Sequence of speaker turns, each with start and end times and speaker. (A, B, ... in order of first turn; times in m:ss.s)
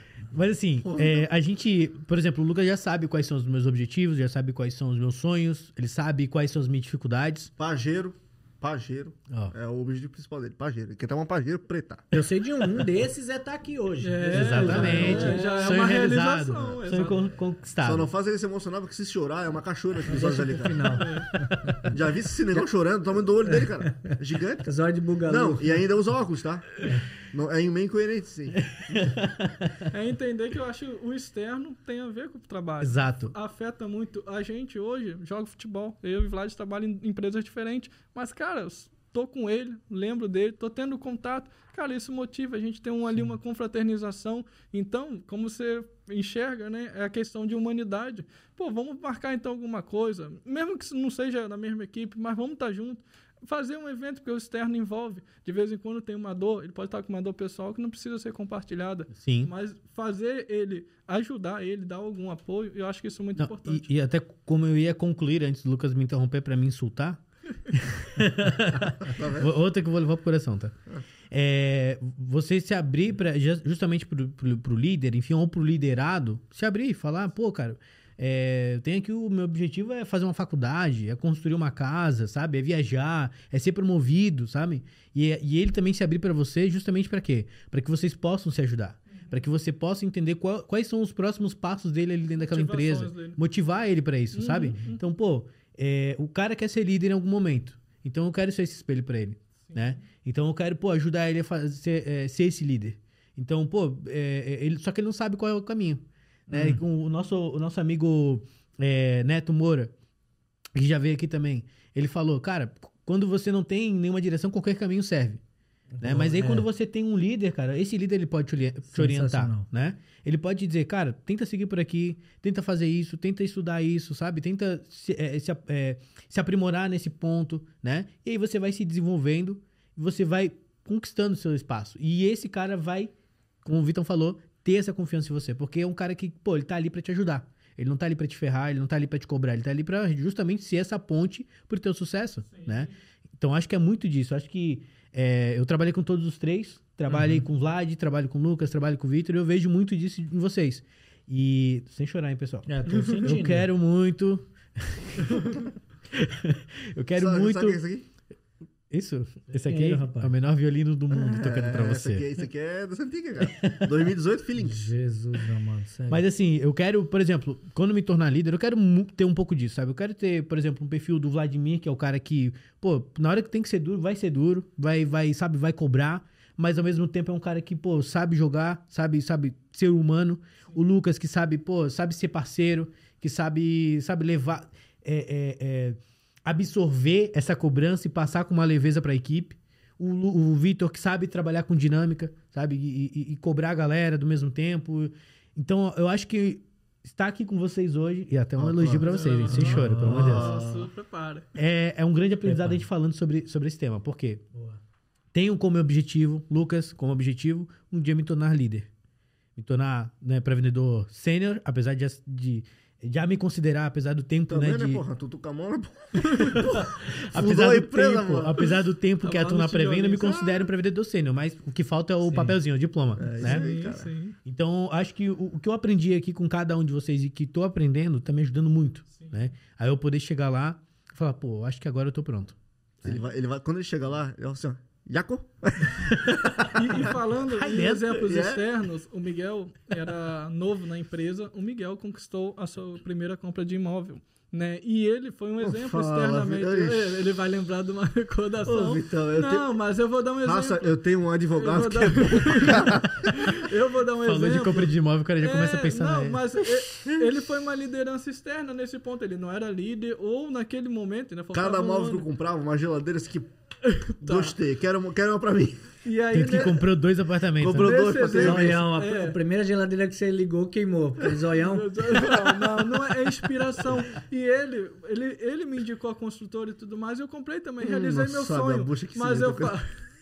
0:00.3-0:07.5 A
0:00.8-0:01.3 B
0:07.6-0:12.1 B
0:12.1-0:16.1 C
0:14.0-0:17.3 D
0:14.3-0:18.1 A
0:14.7-0:15.4 B
0:17.8-0:21.1 B
0:20.0-0:21.9 C
0:21.0-0:21.3 D
0:21.8-0:24.7 B
0:23.4-0:24.1 C
0:24.6-0:25.8 C
0:25.2-0:29.1 B
0:28.6-0:29.8 A
0:29.9-1:03.9 D
0:32.8-0:33.3 A
0:59.1-0:59.5 A
1:03.4-1:10.7 A
1:09.0-1:09.5 B
1:11.3-1:49.9 A
1:32.4-1:33.4 D
1:34.3-1:35.0 D
1:46.5-1:46.8 C
1:50.7-1:55.4 A
1:55.9-1:56.7 C
1:56.0-2:13.1 A
1:58.9-1:59.7 C
2:13.6-2:37.8 A
2:22.5-2:22.9 D
2:27.1-2:27.4 C
2:32.6-2:33.7 C
2:37.2-2:38.0 B
2:38.9-2:42.3 A
2:39.6-2:40.3 C
2:41.1-2:44.8 B
2:43.4-2:43.9 A
2:44.6-2:46.2 C
2:46.1-3:20.5 A
3:18.6-3:20.8 B
3:19.0-3:21.5 D
3:19.5-3:20.8 C
3:21.5-3:24.4 A
3:22.4-3:22.8 C
3:24.5-3:24.8 C
3:25.3-3:28.9 A
3:29.6-3:35.0 A
3:34.5-3:38.6 B
3:36.2-3:36.6 D
3:36.5-3:43.7 A
3:38.6-3:40.6 D
3:42.3-3:42.6 C
3:43.2-3:44.1 B
3:43.4-3:44.4 D
3:44.4-3:53.2 A
3:53.0-3:57.2 B
3:56.0-3:58.2 A
3:56.7-4:11.0 D
3:57.7-3:58.6 B
4:05.6-4:07.2 B
4:08.6-4:09.7 B
4:10.4-4:13.4 B
4:11.5-4:22.3 D
4:14.2-4:16.6 A
4:21.5-4:23.5 B
4:23.8-4:24.6 D
4:24.2-4:25.9 B
4:26.0-4:26.8 D
4:26.3-4:28.0 A
4:27.6-4:28.8 B
4:27.7-4:29.4 D
4:28.3-4:32.7 C
4:31.3-4:40.0 D
4:37.8-4:39.7 B